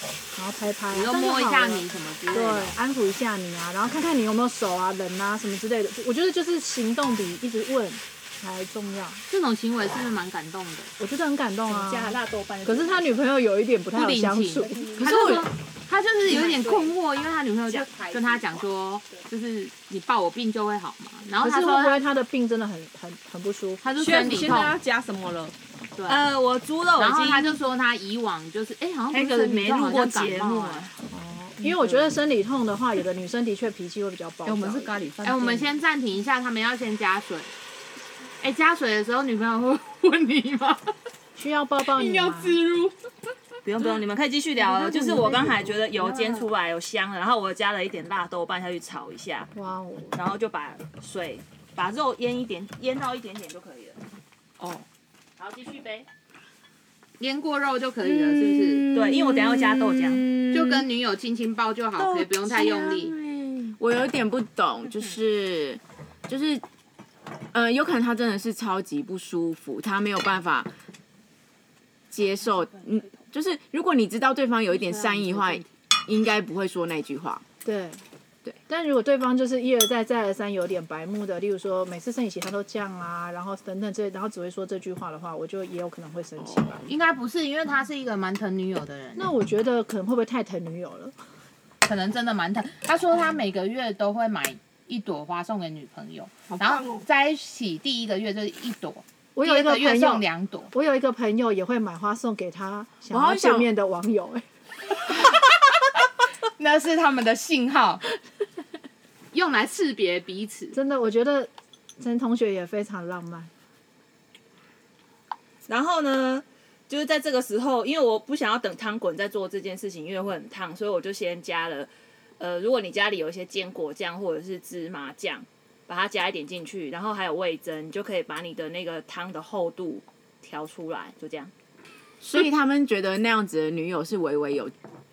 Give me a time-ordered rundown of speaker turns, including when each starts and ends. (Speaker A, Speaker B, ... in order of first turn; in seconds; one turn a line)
Speaker A: 0.3-9.2
Speaker B: 0.9-2.8
Speaker B: 9.3-10.9
Speaker A: 11.0-15.2
Speaker C: 11.7-13.2
Speaker B: 13.9-22.0
Speaker D: 15.0-15.5
Speaker C: 16.3-16.9
Speaker C: 17.7-18.1
Speaker A: 21.4-23.8
Speaker B: 23.8-24.8
Speaker E: 23.9-25.5
Speaker B: 25.9-26.2
Speaker C: 26.1-27.6
Speaker B: 27.0-30.9
Speaker C: 29.1-30.9
Speaker A: 31.1-35.1
Speaker E: 31.6-32.1
Speaker E: 34.5-35.7
Speaker B: 35.2-37.5
Speaker B: 38.4-40.9
Speaker A: 41.4-42.6
Speaker B: 41.9-42.9
Speaker C: 43.6-49.5
Speaker A: 44.6-45.8
Speaker B: 46.0-46.4
Speaker A: 49.5-50.2
Speaker C: 50.1-54.0
Speaker E: 54.6-54.9
Speaker C: 55.4-56.1
Speaker B: 57.2-58.9
Speaker D: 58.0-60.9
Speaker C: 58.9-60.3
Speaker B: 60.5-63.1
Speaker D: 62.0-63.0
Speaker E: 62.5-63.8
Speaker D: 63.8-66.6
Speaker D: 67.5-70.7
Speaker D: 72.1-77.4
Speaker B: 74.7-75.6
Speaker A: 77.6-78.0
Speaker A: 78.7-86.9
Speaker D: 86.4-86.7
Speaker B: 86.9-89.3
Speaker A: 89.2-91.2
Speaker B: 91.8-100.7
Speaker E: 96.5-97.0
Speaker A: 99.3-104.5
Speaker D: 103.1-103.7
Speaker B: 105.0-105.5
Speaker B: 106.6-108.0
Speaker B: 109.3-110.7
Speaker A: 110.7-113.5
Speaker C: 115.7-131.5
Speaker D: 132.2-134.7